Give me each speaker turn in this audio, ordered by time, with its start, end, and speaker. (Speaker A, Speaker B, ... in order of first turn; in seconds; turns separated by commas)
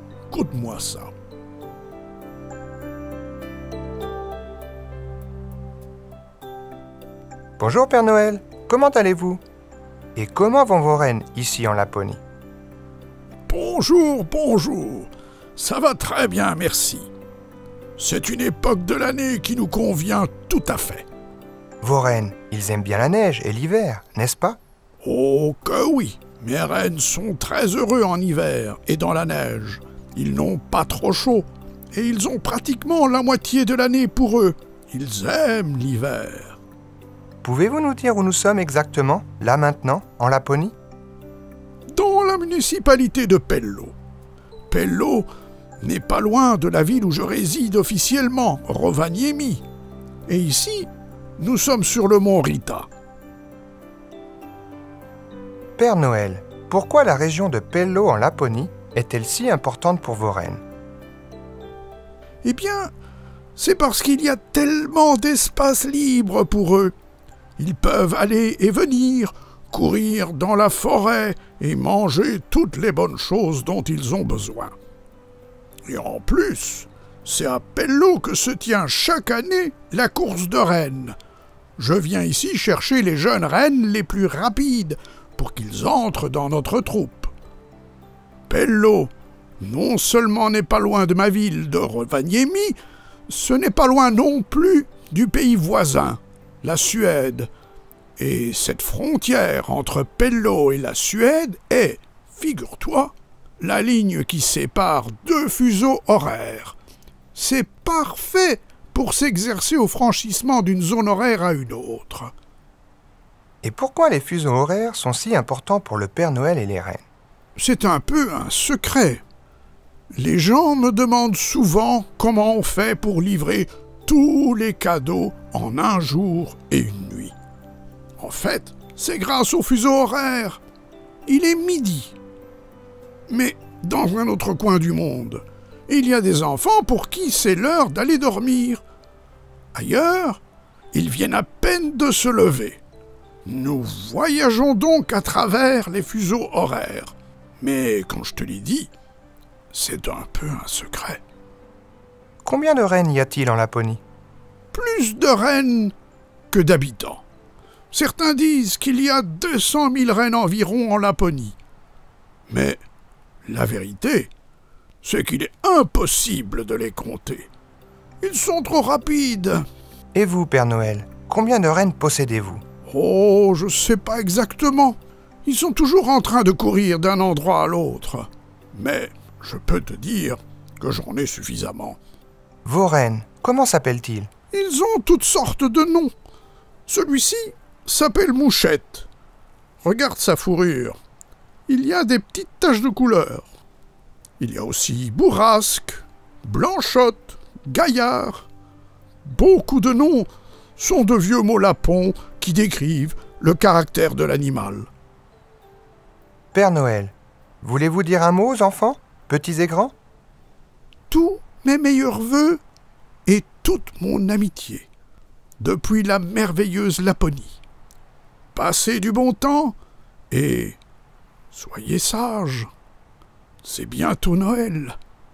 Speaker A: 0.3-1.1, Speaker B: 7.6-9.4, Speaker B: 10.2-12.2, Speaker A: 13.5-17.1, Speaker A: 18.0-21.1, Speaker B: 21.8-24.6, Speaker A: 25.0-36.6, Speaker B: 37.4-40.7, Speaker A: 41.9-44.0, Speaker A: 44.7-45.3, Speaker A: 45.8-49.6, Speaker A: 50.3-52.9, Speaker B: 55.8-60.6, Speaker A: 62.4-62.9, Speaker A: 63.6-66.9, Speaker A: 67.6-74.8, Speaker A: 75.9-81.2, Speaker A: 81.8-87.3, Speaker A: 88.5-92.8, Speaker A: 93.3-97.5, Speaker A: 98.2-106.8, Speaker A: 107.3-112.3, Speaker B: 113.6-117.0, Speaker A: 117.6-119.2, Speaker A: 120.1-127.3, Speaker A: 128.2-130.6, Speaker A: 131.3-132.2, Speaker A: 133.3-138.8, Speaker A: 139.7-140.4, Speaker A: 140.9-142.8, Speaker A: 143.4-148.9, Speaker A: 149.7-151.2, Speaker B: 152.4-154.0, Speaker A: 154.7-155.9, Speaker A: 156.5-157.2, Speaker A: 157.9-161.6, Speaker A: 162.5-162.8, Speaker A: 163.4-164.3, Speaker A: 165.0-167.5, Speaker A: 168.2-169.7, Speaker B: 170.2-172.6, Speaker A: 172.9-182.0, Speaker B: 182.7-184.3, Speaker A: 184.5-186.1, Speaker A: 186.9-189.1, Speaker A: 189.8-191.0, Speaker A: 191.7-193.5, Speaker A: 194.4-198.5, Speaker A: 199.2-204.9, Speaker B: 206.5-209.9, Speaker A: 211.1-212.6, Speaker A: 213.3-214.9, Speaker A: 215.6-217.6, Speaker A: 218.6-219.8, Speaker A: 220.3-220.8, Speaker A: 221.5-222.7, Speaker A: 223.6-225.0